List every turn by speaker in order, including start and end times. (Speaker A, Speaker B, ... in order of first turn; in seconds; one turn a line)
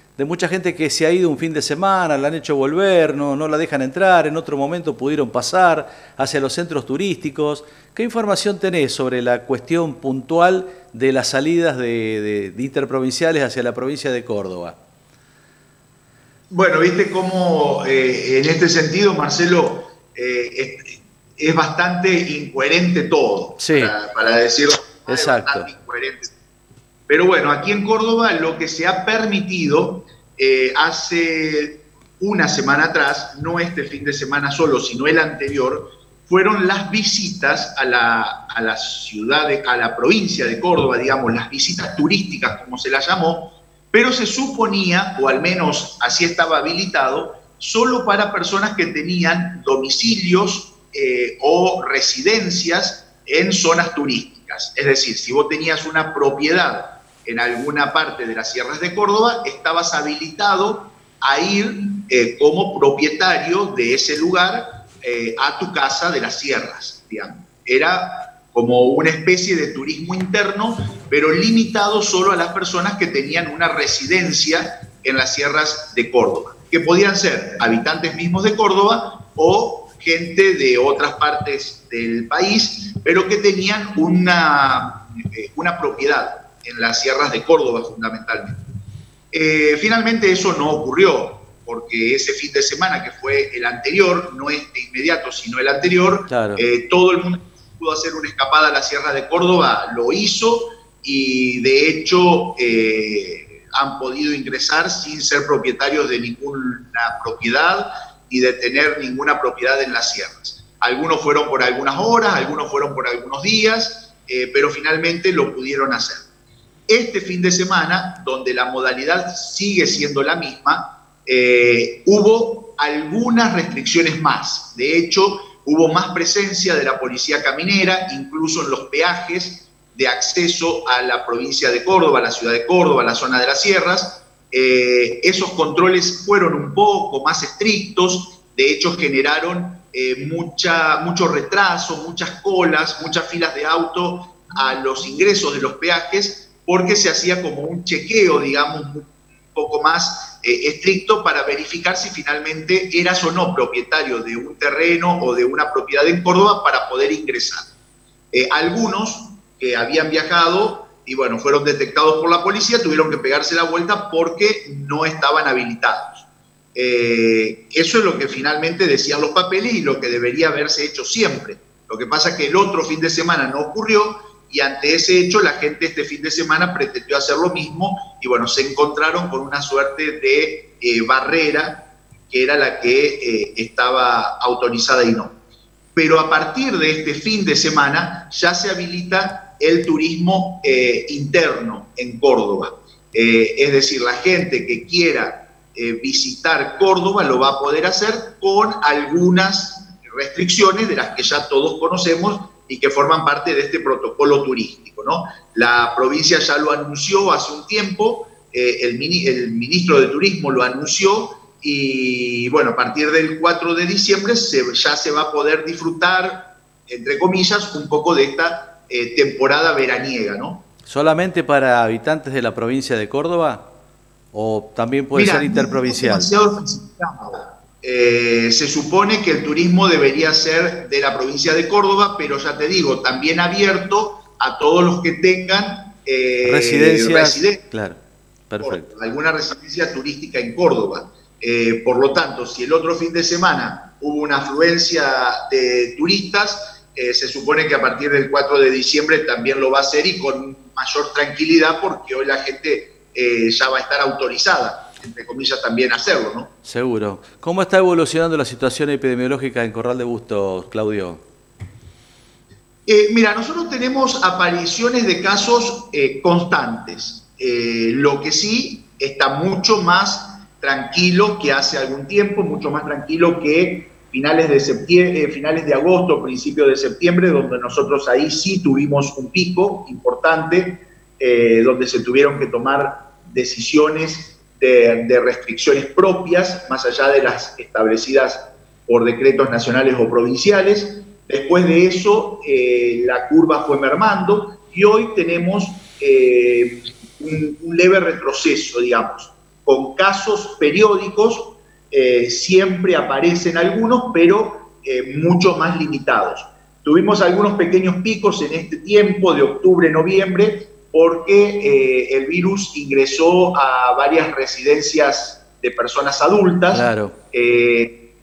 Speaker A: 0.2-14.8
Speaker B: 16.5-26.3
Speaker A: 23.6-23.9
Speaker A: 25.1-25.7
Speaker B: 27.1-88.6
Speaker B: 89.3-116.3
Speaker A: 96.3-96.6
Speaker B: 116.9-157.7
Speaker B: 158.3-185.3
Speaker B: 185.9-220.6
Speaker A: 220.9-223.7
Speaker A: 224.3-226.3
Speaker B: 225.1-237.6
Speaker A: 236.4-238.9
Speaker B: 238.6-256.5
Speaker A: 256.6-261.2
Speaker B: 262.9-317.9
Speaker A: 316.7-317.1